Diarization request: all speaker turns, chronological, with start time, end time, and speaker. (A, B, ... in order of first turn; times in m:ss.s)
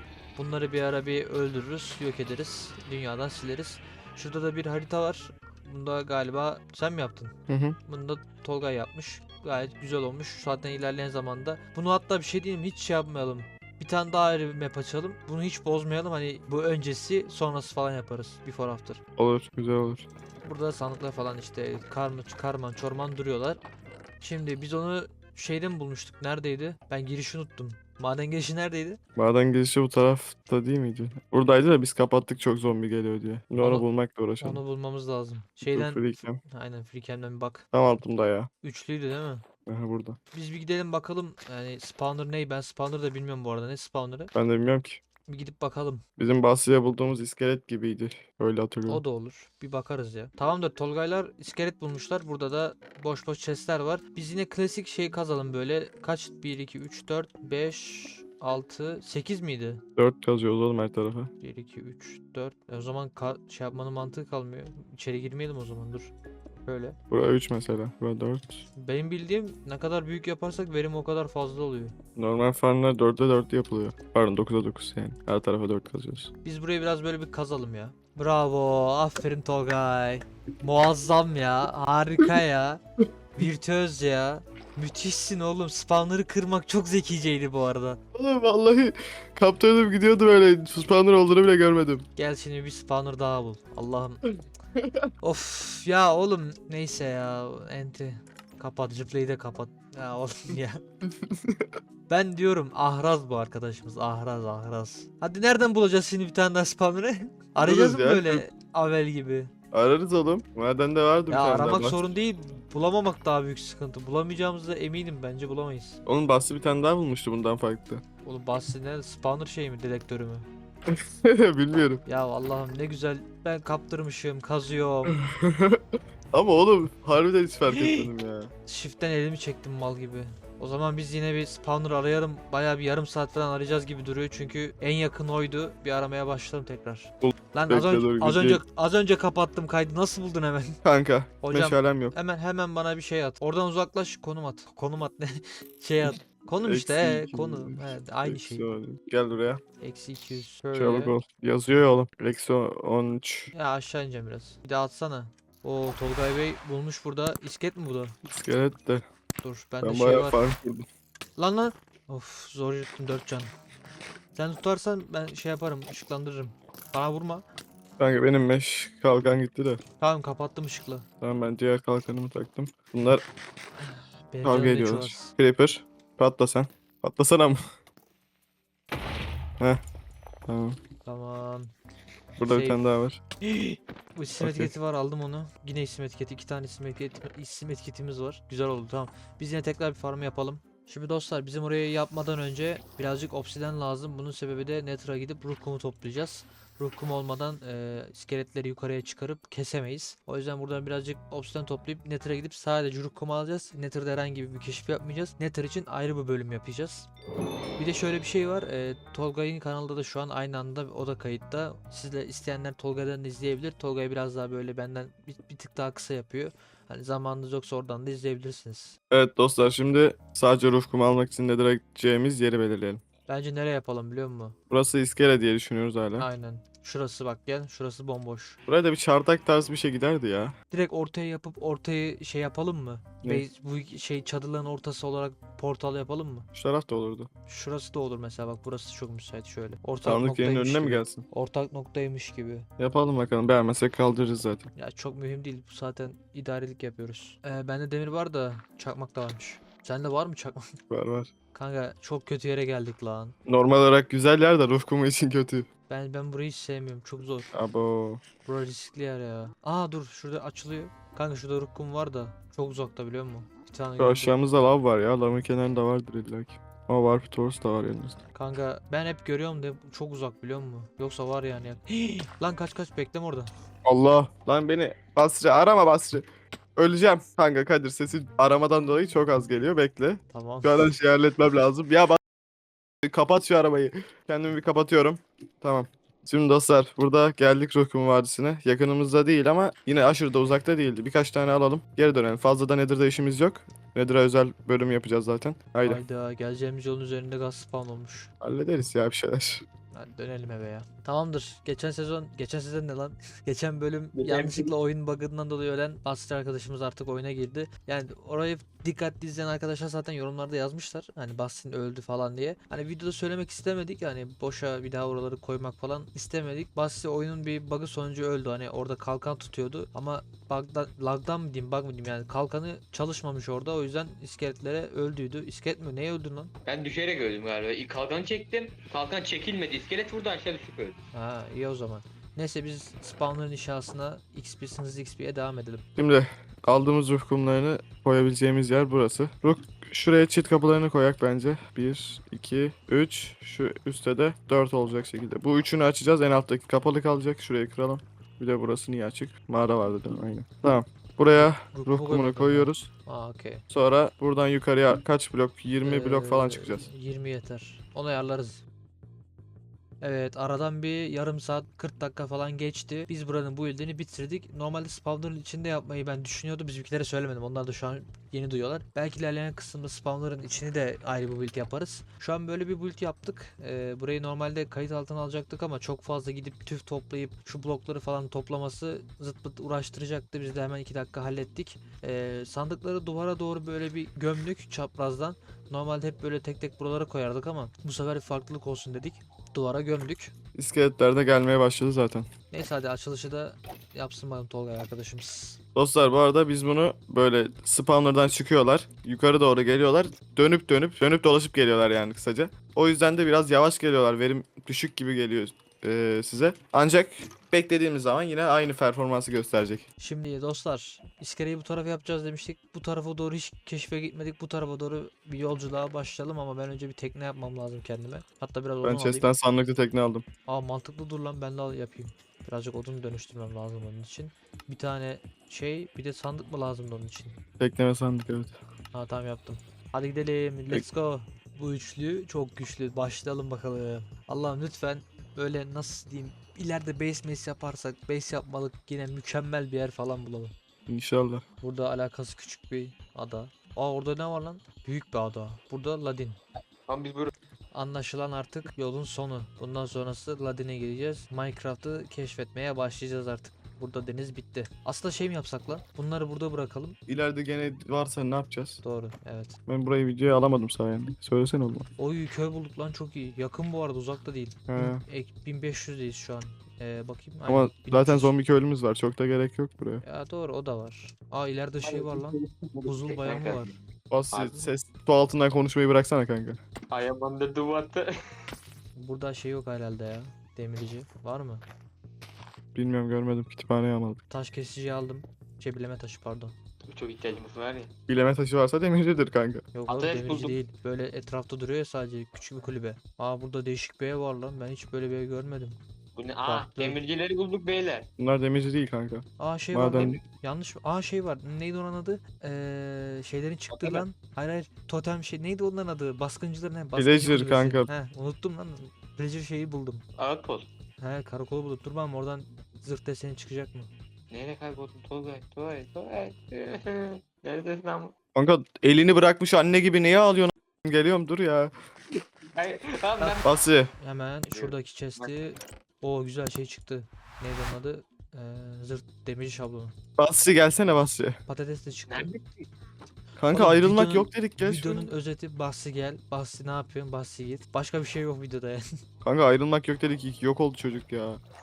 0:00.4-0:07.3 A
0:07.5-0:07.8 B
0:07.9-0:19.0 A
0:19.2-0:20.1 B
0:20.4-0:23.6 A
0:24.2-0:29.0 A
0:29.2-0:34.6 B
0:33.6-0:33.8 A
0:34.4-0:37.6 A
0:35.7-0:36.4 B
0:37.7-0:38.5 B
0:38.6-0:39.4 A
0:39.7-0:40.2 B
0:40.3-0:44.3 A
0:44.3-0:45.0 B
0:45.3-0:46.0 A
0:46.2-0:49.0 B
0:48.9-0:59.8 A
1:00.0-1:01.3 B
1:01.4-1:06.1 A
1:06.6-1:07.0 A
1:07.1-1:08.6 B
1:08.8-1:12.0 A
1:12.2-1:16.3 B
1:16.4-1:22.8 A
1:23.4-1:28.0 A
1:28.2-1:32.1 B
1:32.2-1:34.2 A
1:34.8-1:35.1 B
1:35.2-1:40.8 A
1:41.2-1:41.7 B
1:42.1-1:49.5 A
1:47.6-1:48.4 B
1:49.7-1:52.1 B
1:51.3-1:56.0 A
1:56.1-1:58.0 B
1:58.2-2:00.5 A
2:00.9-2:02.0 B
2:02.0-2:05.2 A
2:05.1-2:08.5 B
2:07.8-2:08.0 A
2:08.7-2:20.8 A
2:17.2-2:18.6 B
2:20.8-2:22.2 B
2:21.4-2:28.7 A
2:26.6-2:29.6 B
2:29.8-2:31.2 A
2:30.7-2:33.5 B
2:33.5-2:38.2 A
2:38.2-2:39.0 B
2:39.4-2:40.4 A
2:39.8-2:40.9 B
2:41.4-2:43.5 A
2:44.4-2:47.4 A
2:48.0-2:49.8 B
2:50.0-2:51.1 A
2:51.2-2:53.2 B
2:53.8-2:55.3 A
2:54.4-2:57.6 B
3:00.5-3:00.8 B
3:01.0-3:01.7 A
3:02.4-3:03.2 B
3:02.5-3:02.8 A
3:03.4-3:27.1 A
3:04.4-3:04.7 B
3:27.8-3:39.0 A
3:39.1-3:43.0 B
3:43.3-3:44.6 A
3:44.7-3:46.3 B
3:46.2-3:48.6 A
3:48.7-3:50.6 B
3:50.7-3:56.5 A
3:56.5-3:57.3 B
3:57.5-4:02.7 A
4:00.0-4:01.3 B
4:02.8-4:04.7 B
4:04.8-4:10.7 A
4:10.9-4:11.3 B
4:11.5-4:13.4 A
4:13.5-4:15.7 B
4:15.9-4:17.5 A
4:17.5-4:18.2 B
4:18.5-4:24.4 A
4:24.0-4:28.2 B
4:28.4-4:33.5 A
4:33.8-4:36.2 B
4:36.8-4:42.2 B
4:40.3-4:40.9 A
4:43.0-4:56.0 B
4:55.8-4:58.3 A
4:58.4-4:59.6 B
4:59.9-5:26.5 A
5:04.1-5:04.7 C
5:26.7-5:31.0 C
5:31.1-5:35.9 A
5:36.0-5:52.9 B
5:51.4-5:53.6 A
5:53.7-5:56.9 B
5:55.8-5:58.6 A
6:00.0-6:30.3 A
6:30.6-6:32.3 B
6:32.5-6:35.6 A
6:35.8-6:49.8 B
6:50.0-6:59.3 A
6:58.8-7:00.2 B
7:00.5-7:07.4 A
7:07.6-7:08.6 B
7:08.9-7:20.5 A
7:20.9-7:21.4 B
7:21.6-7:26.4 A
7:26.9-7:27.3 C
7:27.7-7:37.0 A
7:37.1-7:38.8 B
7:38.8-7:39.6 A
7:39.7-7:41.9 B
7:42.0-7:48.4 A
7:44.7-7:45.0 B
7:47.5-7:50.0 B
7:50.0-7:53.7 A
7:51.8-7:53.8 C
7:54.1-7:56.6 B
7:54.3-7:54.7 C
7:56.9-7:58.1 C
7:59.0-8:01.6 A
8:02.8-8:04.2 B
8:04.3-8:06.6 A
8:06.9-8:07.9 C
8:08.1-8:09.7 B
8:09.7-8:15.8 A
8:09.9-8:10.6 C
8:16.2-8:18.1 C
8:16.4-8:17.0 A
8:18.2-8:20.2 B
8:19.4-8:30.0 A
8:23.7-8:24.0 C
8:27.0-8:27.9 B
8:30.2-8:30.7 C
8:31.0-8:33.9 A
8:34.3-8:38.1 C
8:38.4-8:41.7 B
8:42.2-8:43.5 C
8:43.4-8:43.9 B
8:44.0-8:49.9 A
8:44.5-8:45.3 C
8:50.2-8:51.4 B
8:51.5-8:52.3 A
8:52.1-8:52.6 C
8:53.4-8:55.1 B
8:53.5-8:58.8 A
8:59.2-9:01.4 B